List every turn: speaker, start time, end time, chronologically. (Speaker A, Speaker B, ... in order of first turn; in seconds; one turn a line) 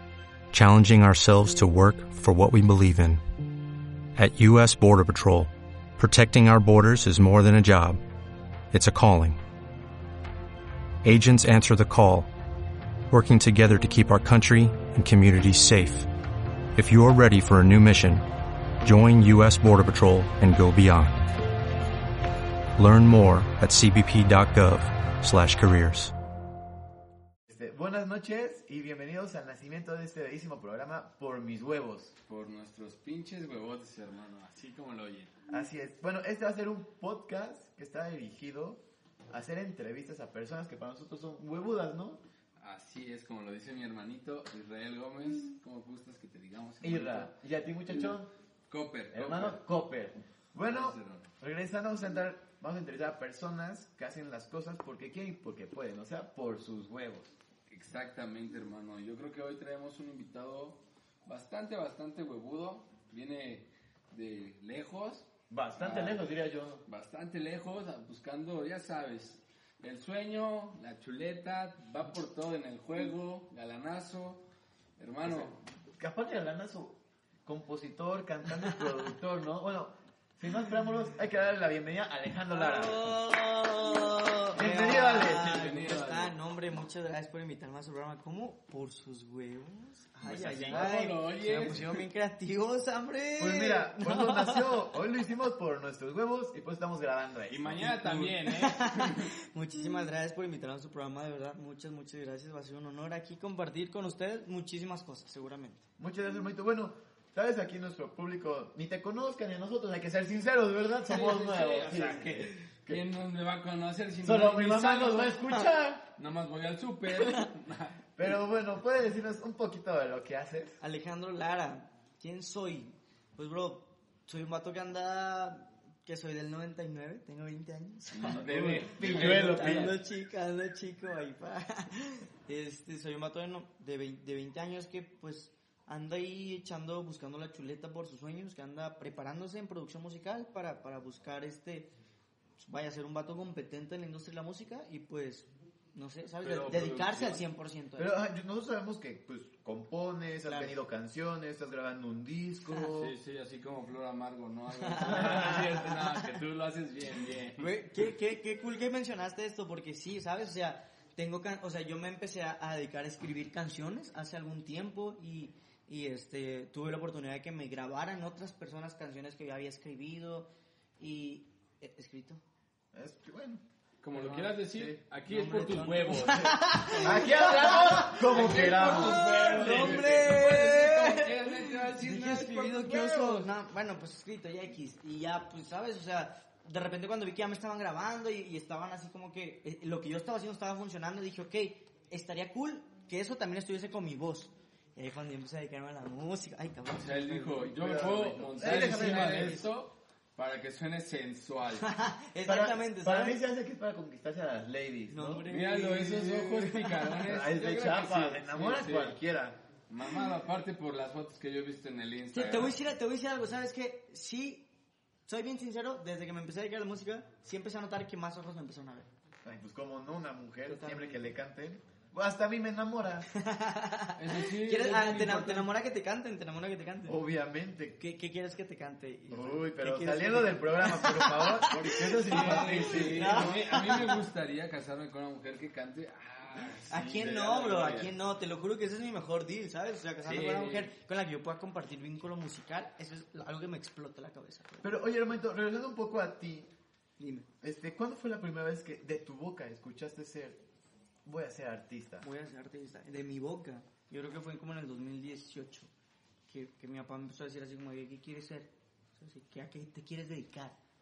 Speaker A: 0.5-3.2
Speaker A: 4.2-8.0
Speaker A: 8.7-9.4
Speaker A: 11.0-12.3
Speaker A: 13.1-16.1
Speaker A: 16.7-18.2
Speaker A: 18.8-21.3
Speaker A: 22.8-26.1
Speaker B: 27.5-32.1
Speaker C: 32.2-35.3
Speaker B: 35.5-42.2
Speaker C: 42.6-48.1
Speaker B: 46.8-48.3
Speaker C: 48.7-49.6
Speaker B: 49.1-57.3
Speaker C: 50.6-51.3
Speaker C: 57.7-66.3
Speaker B: 65.5-66.8
Speaker C: 66.8-74.5
Speaker C: 75.0-75.6
Speaker B: 75.3-83.2
Speaker D: 82.5-94.9
Speaker B: 84.5-85.7
Speaker C: 85.2-86.3
Speaker C: 90.2-92.0
Speaker B: 93.4-98.3
Speaker C: 97.5-99.3
Speaker D: 98.4-105.8
Speaker B: 106.0-113.0
Speaker C: 111.1-115.4
Speaker D: 111.1-112.6
Speaker B: 114.2-116.1
Speaker C: 116.2-118.1
Speaker B: 118.2-120.8
Speaker D: 120.8-141.9
Speaker C: 128.1-129.9
Speaker B: 128.3-129.9
Speaker D: 142.6-148.1
Speaker C: 146.4-147.4
Speaker B: 148.0-153.1
Speaker D: 150.4-150.7
Speaker C: 152.8-157.7
Speaker D: 154.7-156.3
Speaker D: 157.6-170.5
Speaker D: 171.0-172.4
Speaker B: 172.9-173.6
Speaker C: 174.0-177.4
Speaker D: 174.1-197.8
Speaker B: 177.0-179.9
Speaker C: 178.2-183.5
Speaker C: 197.0-201.9
Speaker B: 197.7-199.6
Speaker D: 198.5-199.7
Speaker D: 201.7-203.4
Speaker B: 202.4-205.4
Speaker D: 205.1-207.4
Speaker C: 205.4-209.2
Speaker B: 207.2-209.6
Speaker C: 209.9-212.8
Speaker D: 212.3-214.7
Speaker D: 215.2-219.1
Speaker B: 219.4-223.3
Speaker D: 220.7-221.2
Speaker D: 223.3-227.2
Speaker C: 224.2-225.7
Speaker B: 227.1-228.0
Speaker D: 228.0-234.2
Speaker B: 229.3-233.6
Speaker C: 231.7-238.1
Speaker D: 236.9-245.0
Speaker C: 240.2-240.9
Speaker B: 244.8-246.7
Speaker D: 247.2-247.5
Speaker B: 247.6-250.6
Speaker B: 251.2-252.3
Speaker D: 252.2-255.9
Speaker D: 256.5-260.8